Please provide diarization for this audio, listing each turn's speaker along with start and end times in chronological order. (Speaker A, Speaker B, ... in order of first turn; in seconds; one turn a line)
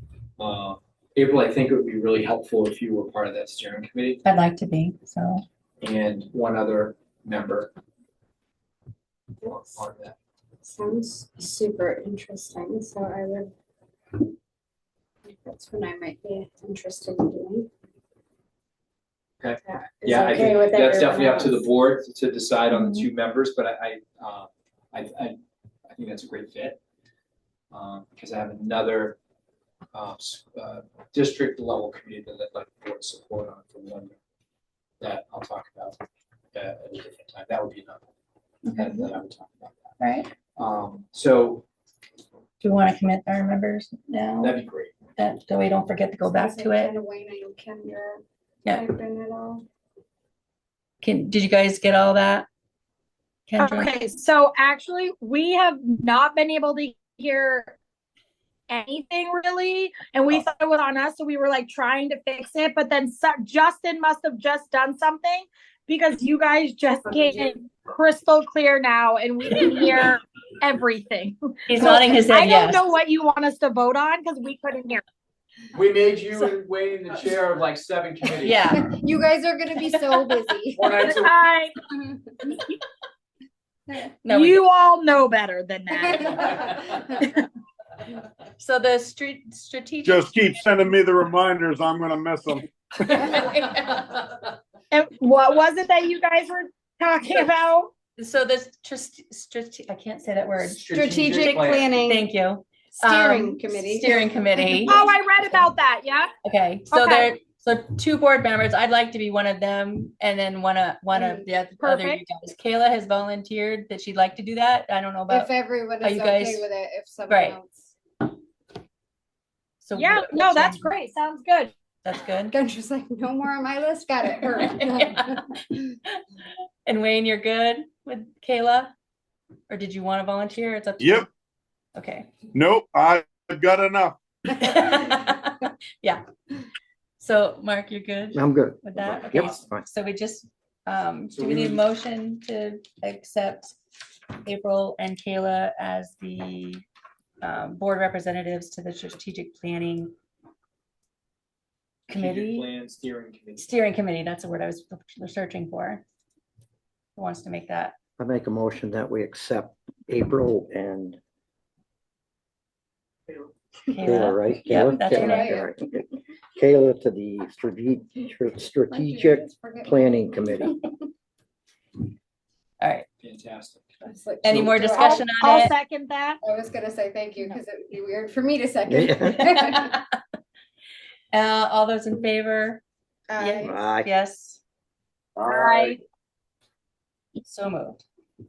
Speaker A: 0.4-4.2
Speaker B: 4.2-5.4
Speaker A: 5.8-7.7
Speaker C: 9.4-9.8
Speaker A: 9.4-10.2
Speaker C: 10.6-13.5
Speaker C: 15.3-17.7
Speaker A: 19.4-25.4
Speaker C: 19.6-21.6
Speaker B: 22.7-23.1
Speaker A: 25.9-26.8
Speaker A: 27.7-29.2
Speaker A: 29.9-34.2
Speaker A: 35.0-36.0
Speaker A: 36.5-38.0
Speaker B: 38.6-39.1
Speaker A: 38.7-40.0
Speaker B: 40.0-40.3
Speaker A: 40.5-41.6
Speaker B: 42.6-44.6
Speaker A: 44.4-45.0
Speaker B: 45.2-47.0
Speaker C: 46.2-49.6
Speaker B: 51.0-52.5
Speaker B: 53.5-54.2
Speaker D: 53.6-57.8
Speaker D: 58.7-75.0
Speaker B: 71.7-72.8
Speaker A: 75.7-78.8
Speaker B: 78.4-78.9
Speaker C: 78.7-81.1
Speaker A: 80.8-81.3
Speaker D: 81.0-81.8
Speaker D: 82.4-82.8
Speaker B: 84.0-84.6
Speaker D: 84.3-87.5
Speaker C: 86.4-87.1
Speaker B: 88.6-90.7
Speaker E: 90.0-93.3
Speaker C: 93.3-93.7
Speaker D: 94.9-97.9
Speaker B: 98.2-100.8
Speaker A: 100.6-101.9
Speaker C: 100.9-102.3
Speaker B: 101.4-105.7
Speaker C: 103.0-105.1
Speaker D: 104.9-106.3
Speaker B: 106.4-116.7
Speaker D: 106.9-107.3
Speaker C: 111.1-111.5
Speaker D: 111.8-112.2
Speaker C: 115.3-117.9
Speaker B: 117.3-117.6
Speaker B: 119.8-120.9
Speaker D: 119.9-121.7
Speaker B: 122.0-122.5
Speaker C: 122.5-125.8
Speaker B: 124.6-125.4
Speaker B: 126.9-128.9
Speaker B: 129.7-131.3
Speaker E: 131.0-131.3
Speaker B: 132.0-132.4
Speaker E: 132.5-134.2
Speaker B: 134.5-136.2
Speaker B: 137.2-143.8
Speaker F: 138.3-139.8
Speaker A: 139.3-139.6
Speaker A: 141.3-141.8
Speaker B: 144.5-146.8
Speaker B: 147.4-150.1
Speaker B: 152.1-152.7
Speaker A: 152.1-153.8
Speaker B: 153.6-156.0
Speaker B: 157.2-158.0
Speaker F: 158.2-161.2
Speaker B: 163.9-165.6
Speaker F: 164.0-170.8
Speaker C: 165.1-165.7
Speaker C: 168.9-169.9
Speaker B: 172.8-173.1
Speaker A: 173.2-173.9
Speaker C: 174.0-175.5
Speaker B: 174.4-175.7
Speaker D: 175.0-176.4
Speaker C: 176.4-180.0
Speaker F: 178.9-179.5
Speaker B: 179.4-180.0
Speaker B: 181.3-182.8
Speaker C: 183.3-183.8
Speaker B: 183.4-184.6
Speaker F: 183.6-184.1
Speaker E: 185.4-185.9
Speaker D: 185.4-186.0
Speaker B: 187.4-188.0